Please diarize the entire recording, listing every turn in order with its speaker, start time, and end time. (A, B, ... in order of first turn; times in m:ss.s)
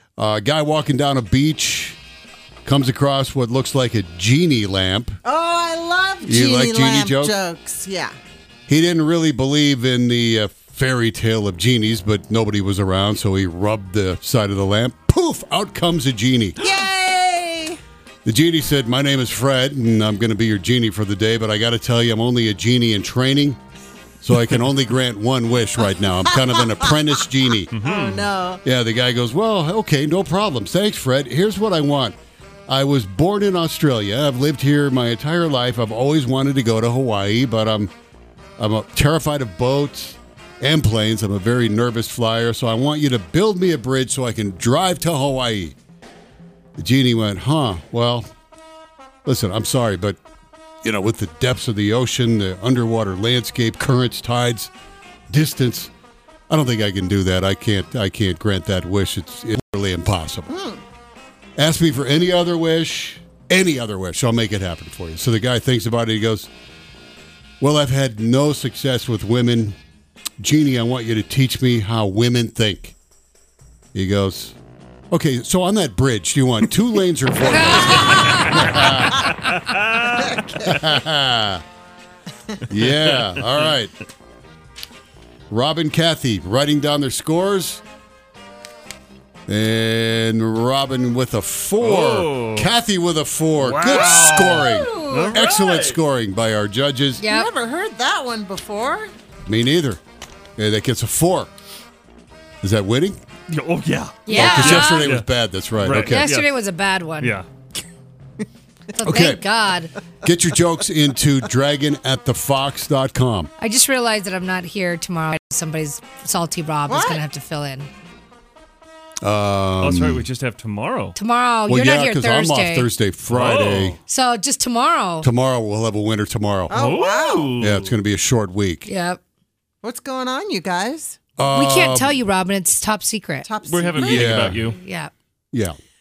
0:00.2-0:02.0 A
0:02.6-0:05.2 A
0:05.2-0:08.1 B
0:06.2-0:07.3 A
0:08.7-0:16.6 A
0:16.6-0:17.8 B
0:18.2-0:23.6 A
0:24.2-0:27.7 A
0:26.0-0:27.0 B
0:27.7-0:28.3 C
0:27.8-0:28.6 B
0:28.6-0:32.2 A
0:32.7-0:37.9 A
0:38.6-0:45.8 A
0:46.8-0:48.2 A
0:49.2-0:50.2 A
0:50.8-0:54.7 A
0:55.3-0:55.9 A
0:56.5-1:00.5 A
1:00.5-1:00.8 B
1:01.6-1:06.5 A
1:07.6-1:09.8 A
1:10.4-1:13.0 A
1:13.9-1:14.6 A
1:15.1-1:19.3 A
1:17.4-1:18.7 D
1:18.1-1:20.4 C
1:20.2-1:20.5 B
1:20.6-1:21.6 A
1:22.7-1:23.9 A
1:22.9-1:23.7 C
1:25.5-1:27.8 A
1:29.5-1:37.2 A
1:31.8-1:32.7 C
1:33.6-1:36.0 C
1:33.8-1:35.4 B
1:37.2-1:37.5 D
1:37.2-1:39.1 B
1:39.4-1:40.0 A
1:40.6-1:41.5 A
1:42.6-1:43.2 A
1:43.5-1:46.5 C
1:44.3-1:45.1 D
1:44.3-1:46.3 A
1:46.0-1:47.4 D
1:47.2-1:47.4 C
1:49.0-1:50.0 D
1:49.0-1:49.4 A
1:50.2-1:53.5 A
1:53.6-1:57.9 D
1:56.9-1:57.2 B
1:59.2-2:00.3 A
1:59.8-2:01.2 C
2:01.2-2:02.9 D
2:01.7-2:04.0 A
2:03.3-2:04.0 C
2:04.1-2:05.3 D
2:05.2-2:06.7 A
2:06.7-2:07.6 B
2:06.7-2:07.9 C
2:07.6-2:08.9 A
2:08.9-2:09.2 D
2:09.8-2:11.2 B
2:11.4-2:12.1 A
2:11.5-2:13.5 D
2:13.4-2:14.6 B
2:13.6-2:14.8 C
2:14.0-2:14.6 A
2:14.6-2:15.1 D